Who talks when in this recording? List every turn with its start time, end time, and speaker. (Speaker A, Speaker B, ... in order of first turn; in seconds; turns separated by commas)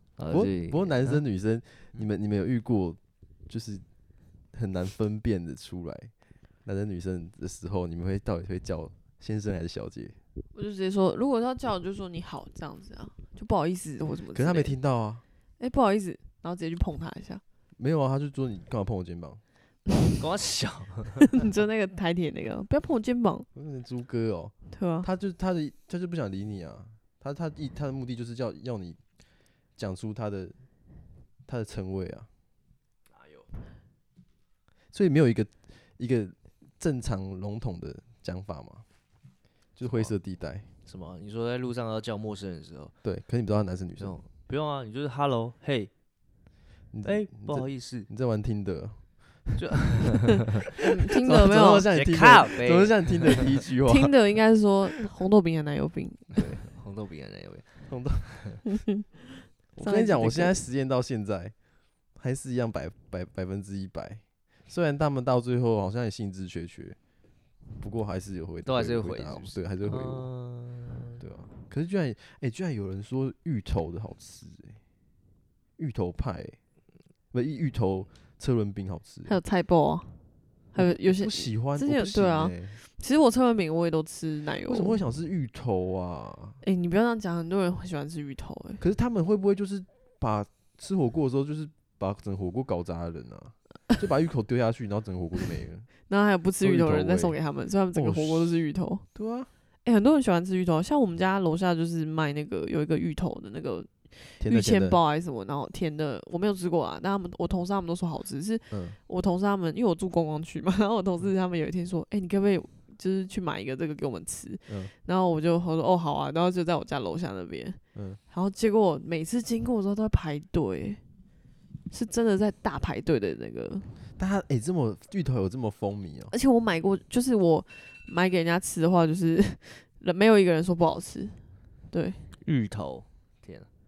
Speaker A: 0.2-1.2, Speaker B: 0.3-10.2, Speaker C: 10.5-14.7, Speaker B: 14.3-15.2, Speaker C: 15.6-17.4, Speaker B: 17.8-19.4, Speaker A: 20.2-21.2, Speaker C: 21.4-23.5, Speaker B: 23.5-29.0, Speaker C: 24.7-25.1, Speaker B: 29.7-30.6, Speaker B: 31.4-32.3, Speaker A: 33.1-33.5, Speaker B: 34.9-38.9, Speaker B: 39.8-40.7, Speaker A: 39.8-40.1, Speaker A: 40.9-42.9, Speaker B: 43.0-44.1, Speaker A: 44.0-45.9, Speaker B: 46.9-50.0, Speaker A: 47.0-48.1, Speaker A: 49.6-50.4, Speaker C: 50.8-51.9, Speaker B: 51.2-54.1, Speaker A: 51.9-53.5, Speaker C: 53.9-56.3, Speaker A: 56.3-58.6, Speaker B: 57.9-58.6, Speaker B: 59.7-67.0, Speaker C: 59.8-60.6, Speaker B: 67.7-70.3, Speaker A: 68.6-71.2, Speaker B: 71.2-74.8, Speaker B: 75.8-76.6, Speaker B: 77.3-79.4, Speaker C: 79.3-85.0, Speaker B: 80.8-82.6, Speaker B: 84.6-86.6, Speaker C: 86.6-88.8, Speaker B: 88.8-96.0, Speaker C: 96.1-99.0, Speaker B: 96.6-98.6, Speaker B: 99.1-99.5, Speaker C: 99.8-121.0, Speaker B: 104.4-105.0, Speaker B: 108.7-109.0, Speaker B: 114.7-114.9, Speaker B: 117.9-118.2, Speaker C: 121.9-123.9, Speaker B: 124.2-126.3, Speaker C: 126.3-132.3, Speaker A: 132.4-133.7